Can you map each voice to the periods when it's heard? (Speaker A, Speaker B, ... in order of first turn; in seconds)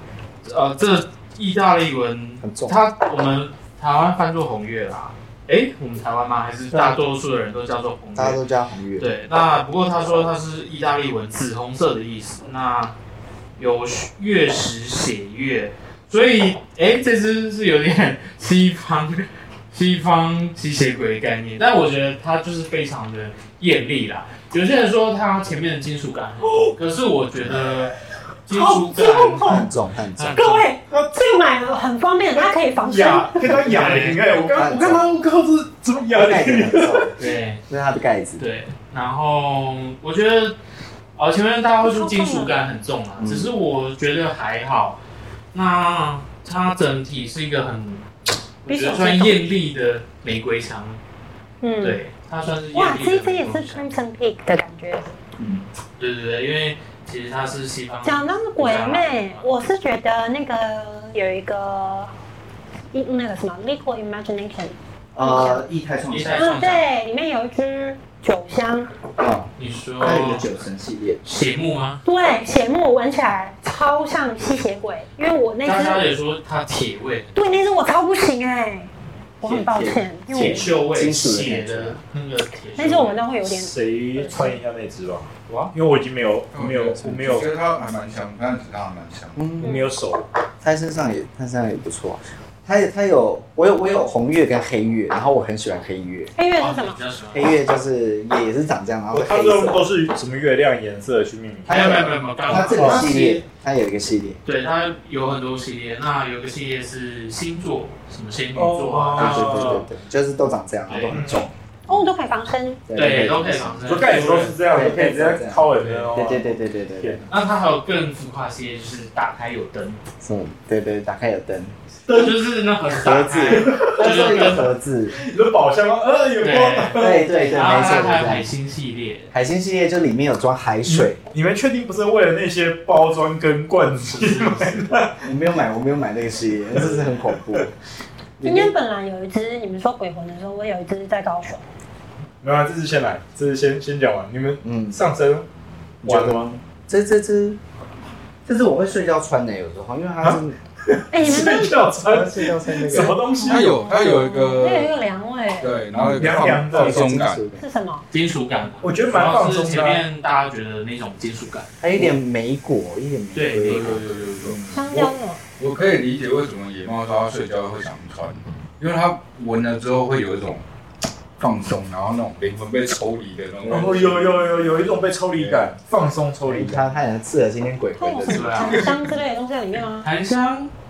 Speaker A: 0.4-8.4, 9.0-12.9, 13.6-27.9, 28.5-30.7, 33.6-34.5, 37.2-37.6, 38.4-40.6, 41.2-45.0, 45.5-48.1, 48.6-51.0, 51.8-53.9, 56.0-59.5, 66.1-66.9, 69.6-70.5, 71.2-72.0, 75.6-77.5, 80.3-83.2, 85.5-85.7, 96.6-97.5, 101.7-103.4, 104.5-109.8, 110.9-111.2, 113.0-114.6, 115.7-116.1, 117.3-120.0, 122.1-124.7, 126.4-129.3, 134.1-135.1, 158.1-161.8, 163.3-164.5, 178.3-178.9, 180.0-180.7
Speaker B: 2.4-2.8, 6.7-7.0, 8.2-9.1, 29.4-30.4, 34.5-35.0, 36.1-38.4, 43.2-43.5, 55.4-55.6, 65.2-66.5, 69.2-71.2, 79.4-82.0, 89.4-89.8, 90.6-96.3, 97.3-99.9, 101.7-104.4, 109.2-112.0, 112.9-114.1, 114.7-117.3, 120.2-121.8, 122.9-125.2, 127.0-128.5, 129.3-131.2, 135.2-137.7, 138.4-138.7, 144.6-145.1, 146.0-147.6, 148.5-150.6, 152.0-153.2, 156.0-157.7, 161.8-164.8, 176.5-178.8
Speaker C: 28.5-29.7, 30.4-33.7, 41.8-42.6, 48.7-49.4, 51.6-52.0, 52.7-55.1, 58.0-62.1, 62.9-65.7, 66.3-68.9, 72.0-76.0, 77.3-80.7, 82.8-84.6, 89.6-89.9, 96.4-97.0, 111.9-112.8, 138.4-141.6, 151.1-151.8, 153.2-155.8, 157.6-158.1, 164.7-165.4, 178.0-180.1
Speaker D: 32.8-37.1, 83.4-87.5, 89.6-90.3, 99.1-101.9, 102.5-103.4, 108.5-109.9, 111.1-111.5, 113.8-117.2, 122.1-122.4, 123.6-124.4, 125.1-127.3, 130.9-135.2, 136.8-137.6, 142.4-145.5, 146.0-146.5, 150.2-153.9, 156.1-157.2, 158.8-160.0, 173.7-176.9
Speaker E: 86.5-89.4, 153.4-155.0, 155.6-157.4, 163.8-170.6, 171.4-174.8, 175.3-175.7